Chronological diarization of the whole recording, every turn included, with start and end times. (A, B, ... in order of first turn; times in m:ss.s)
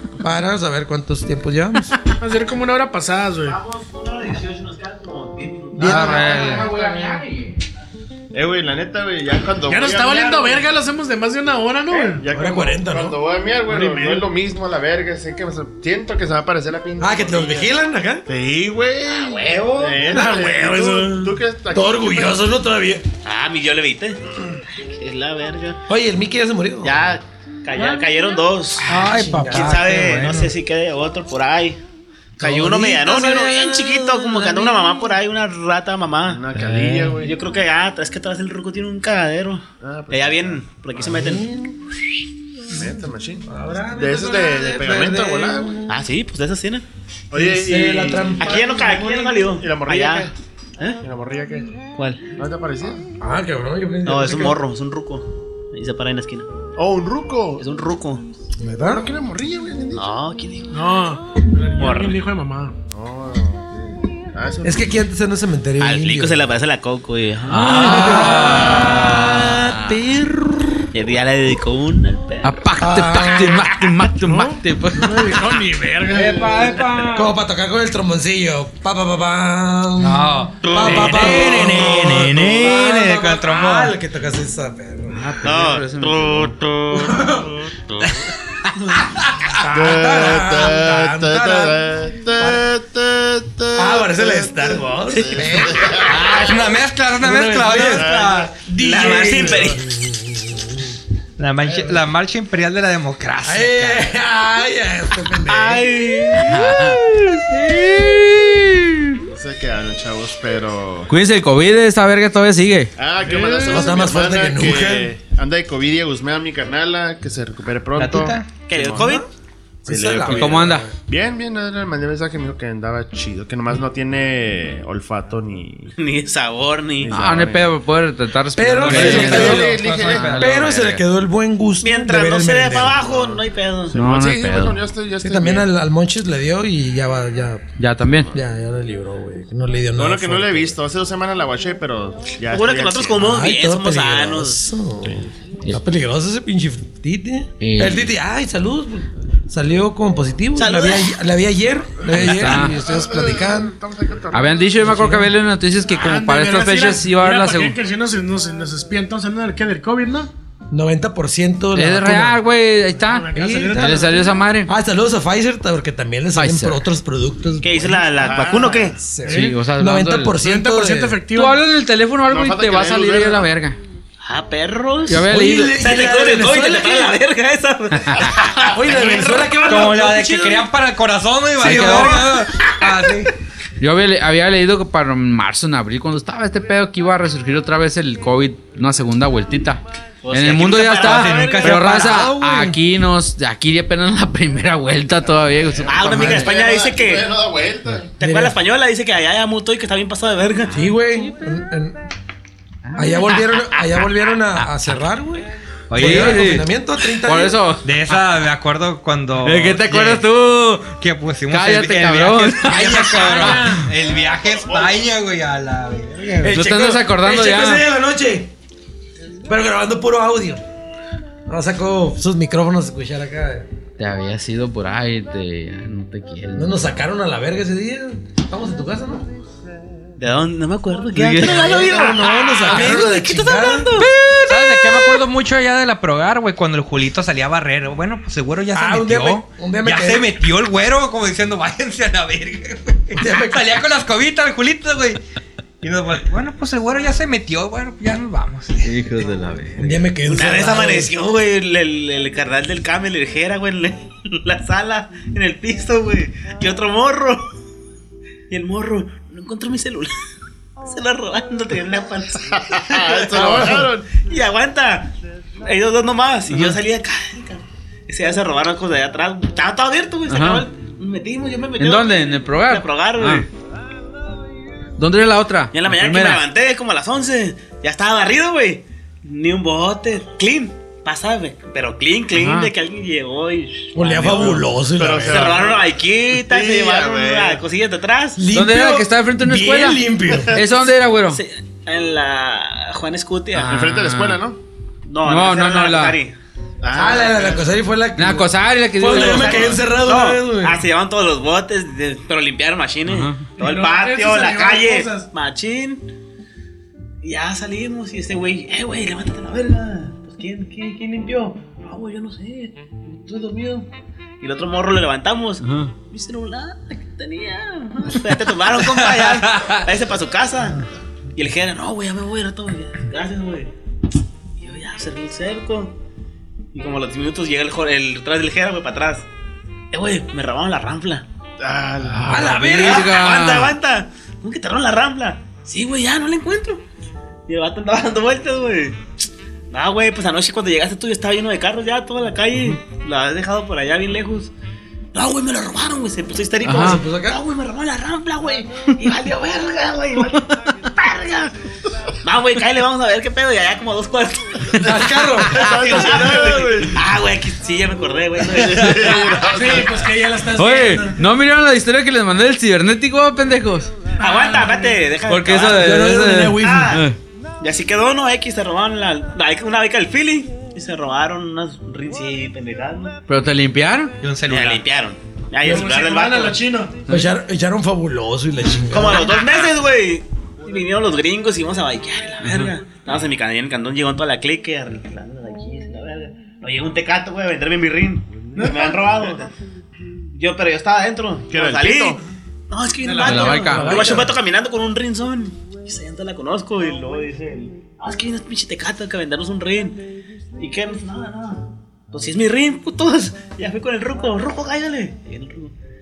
0:00.2-0:01.9 A
0:02.2-0:03.6 B
0:03.4-0:06.7 C
0:05.7-0:06.5 A
0:05.8-0:07.6 D
0:08.3-0:10.6 E
0:09.6-0:12.2 B
0:12.2-0:17.7 E
0:12.3-0:13.2 A
0:13.6-0:14.3 B
0:17.0-0:18.2 A
0:18.3-0:22.4 E
0:19.0-0:20.1 C
0:20.1-0:21.2 B
0:20.1-0:23.0 A
0:23.2-0:24.2 C
0:24.7-0:25.8 C
0:25.9-0:27.1 A
0:26.8-0:28.9 C
0:28.8-0:30.5 A
0:28.9-0:30.1 F
0:29.4-0:31.8 C
0:32.4-0:36.4 C
0:32.4-0:35.2 A
0:36.3-0:37.4 E
0:36.6-0:37.2 A
0:36.6-0:37.1 D
0:37.2-0:41.5 C
0:39.8-0:40.6 E
0:41.0-0:41.8 A
0:42.7-0:45.8 E
0:43.4-0:46.0 A
0:45.9-0:46.8 C
0:47.3-0:48.9 E
0:47.3-0:49.5 A
0:48.4-0:51.0 C
0:49.5-0:50.3 E
0:51.0-0:51.8 E
0:52.0-0:52.2 C
0:52.4-0:53.0 E
0:53.2-0:54.6 A
0:54.0-0:56.5 C
0:56.8-0:57.8 E
0:57.6-0:58.2 C
0:58.6-0:59.0 A
0:58.9-1:00.1 E
1:00.0-1:00.8 C
1:00.7-1:02.8 B
1:01.8-1:02.2 C
1:02.9-1:05.0 E
1:04.6-1:06.5 A
1:05.8-1:09.8 C
1:07.5-1:10.0 D
1:07.6-1:10.8 A
1:10.9-1:12.6 C
1:12.4-1:15.6 D
1:12.8-1:13.8 A
1:14.2-1:16.6 B
1:16.1-1:16.8 E
1:16.2-1:17.3 F
1:17.1-1:25.5 A
1:20.0-1:23.9 F
1:20.7-1:21.5 C
1:25.1-1:26.5 D
1:25.4-1:28.1 C
1:26.9-1:27.5 A
1:29.0-1:31.8 A
1:29.7-1:36.7 E
1:32.4-1:32.7 A
1:33.7-1:36.4 A
1:35.1-1:36.6 C
1:36.1-1:38.5 F
1:37.3-1:38.1 A
1:37.5-1:39.7 E
1:37.9-1:39.8 C
1:38.6-1:41.0 A
1:41.4-1:44.1 F
1:41.6-1:42.0 A
1:43.4-1:46.0 A
1:45.5-1:47.0 C
1:46.4-1:49.2 D
1:49.2-1:51.2 E
1:51.1-1:52.9 D
1:53.0-1:59.2 E
1:53.6-1:55.1 A
1:58.0-1:58.5 F
1:58.6-1:59.3 C
1:58.8-1:59.3 A
1:59.8-2:00.9 A
1:59.8-2:05.9 E
2:00.2-2:00.9 D
2:06.0-2:07.4 C
2:07.0-2:07.7 E
2:07.1-2:11.0 D
2:08.6-2:13.0 A
2:08.8-2:10.6 F
2:08.9-2:10.4 E
2:11.8-2:13.9 C
2:12.7-2:15.7 E
2:13.9-2:14.9 D
2:15.2-2:17.8 A
2:17.8-2:18.3 D
2:18.3-2:20.8 A
2:20.0-2:23.3 E
2:22.5-2:24.6 C
2:23.2-2:33.8 A
2:25.0-2:25.3 E
2:27.6-2:28.1 D
2:30.6-2:31.2 C
2:32.1-2:34.8 E
2:32.1-2:32.8 D
2:34.3-2:37.8 D
2:34.8-2:35.3 A
2:35.9-2:40.3 B
2:40.7-2:42.4 A
2:41.7-2:44.7 D
2:43.0-2:44.4 B
2:43.3-2:51.2 A
2:46.4-2:46.8 D
2:47.6-2:49.0 C
2:48.1-2:49.0 E
2:49.2-2:49.6 B
2:49.3-2:50.4 D
2:50.4-2:51.7 B
2:51.3-2:53.8 D
2:52.3-2:53.5 E
2:54.2-2:59.6 C
2:55.1-2:55.8 D
2:55.3-2:57.1 A
2:58.6-3:00.7 A
2:59.6-3:03.3 F
3:01.6-3:02.3 D
3:01.6-3:02.5 A
3:03.8-3:16.4 D
3:10.2-3:12.3 C
3:10.9-3:12.1 F
3:11.8-3:12.8 A
3:15.1-3:18.1 E
3:15.9-3:17.3 C
3:16.1-3:16.5 A
3:18.2-3:18.6 A
3:18.2-3:20.7 C
3:20.7-3:22.0 A
3:22.9-3:23.7 D
3:23.0-3:27.6 A
3:25.9-3:26.6 F
3:26.0-3:27.9 D
3:27.8-3:30.2 F
3:29.4-3:31.0 D
3:30.9-3:36.6 F
3:31.5-3:33.8 D
3:33.1-3:33.8 B
3:34.2-3:34.8 E
3:36.4-3:38.5 A
3:36.5-3:37.8 D
3:39.4-3:40.6 A
3:41.5-3:43.7 A
3:44.0-3:46.9 D
3:46.5-3:49.3 A
3:50.2-3:54.1 C
3:51.2-3:52.0 D
3:51.4-3:54.0 A
3:52.6-3:53.0 D
3:54.0-3:55.2 D
3:54.4-4:05.2 F
3:58.7-4:00.3 A
4:03.1-4:03.8 A
4:05.8-4:09.0 F
4:08.8-4:10.0 D
4:09.8-4:11.1 A
4:10.2-4:17.4 C
4:18.5-4:20.1 C
4:20.8-4:25.1 C
4:22.5-4:24.1 E
4:25.6-4:33.5 C
4:26.5-4:26.8 D
4:30.3-4:30.7 D
4:31.8-4:33.4 D
4:35.0-4:36.4 D
4:35.7-4:44.6 C
4:42.3-4:42.7 D
4:43.9-4:45.6 A
4:44.2-4:47.6 E
4:45.2-4:48.4 C
4:48.4-4:50.6 A
4:48.5-4:51.4 D
4:51.3-4:53.8 C
4:53.5-4:54.4 D
4:53.6-4:54.6 E
4:55.0-4:56.4 C
4:55.2-4:56.2 D
4:56.8-4:57.8 E
4:56.9-5:00.8 A
4:58.2-4:59.8 D
4:59.0-5:06.0 C
5:03.0-5:03.5 D
5:03.6-5:05.3 B
5:07.2-5:13.9 C
5:14.4-5:20.8 C
5:15.6-5:15.9 D
5:21.4-5:23.7 C
5:24.6-5:25.9 C
5:26.7-5:29.3 C
5:29.9-5:31.2 C
5:31.6-5:32.9 E
5:32.1-5:33.1 A
5:32.1-5:33.7 D
5:32.6-5:36.8 C
5:37.5-5:39.0 C
5:39.7-5:44.5 C
5:45.1-5:51.5 C
5:46.6-5:47.4 A
5:46.6-5:47.0 D
5:52.2-5:54.9 C
5:54.8-5:56.1 A
5:55.5-5:57.0 E
5:55.5-5:59.4 C
5:58.4-6:00.1 E
5:59.4-6:01.2 B
6:00.0-6:01.1 A
6:00.5-6:03.9 D
6:04.2-6:05.9 C
6:04.2-6:04.9 B
6:05.3-6:07.2 D
6:05.7-6:07.0 A
6:06.6-6:07.0 C
6:07.6-6:13.2 C
6:13.3-6:14.1 D
6:14.2-6:14.8 F
6:14.5-6:16.6 C
6:15.6-6:17.0 B
6:17.1-6:19.3 A
6:18.9-6:29.5 C
6:19.2-6:19.7 F
6:22.4-6:22.7 D
6:28.6-6:29.3 B
6:30.3-6:32.2 C
6:31.5-6:32.2 E
6:32.7-6:40.0 C
6:33.2-6:34.1 D
6:33.2-6:33.8 B
6:33.4-6:34.4 A
6:40.6-6:45.7 C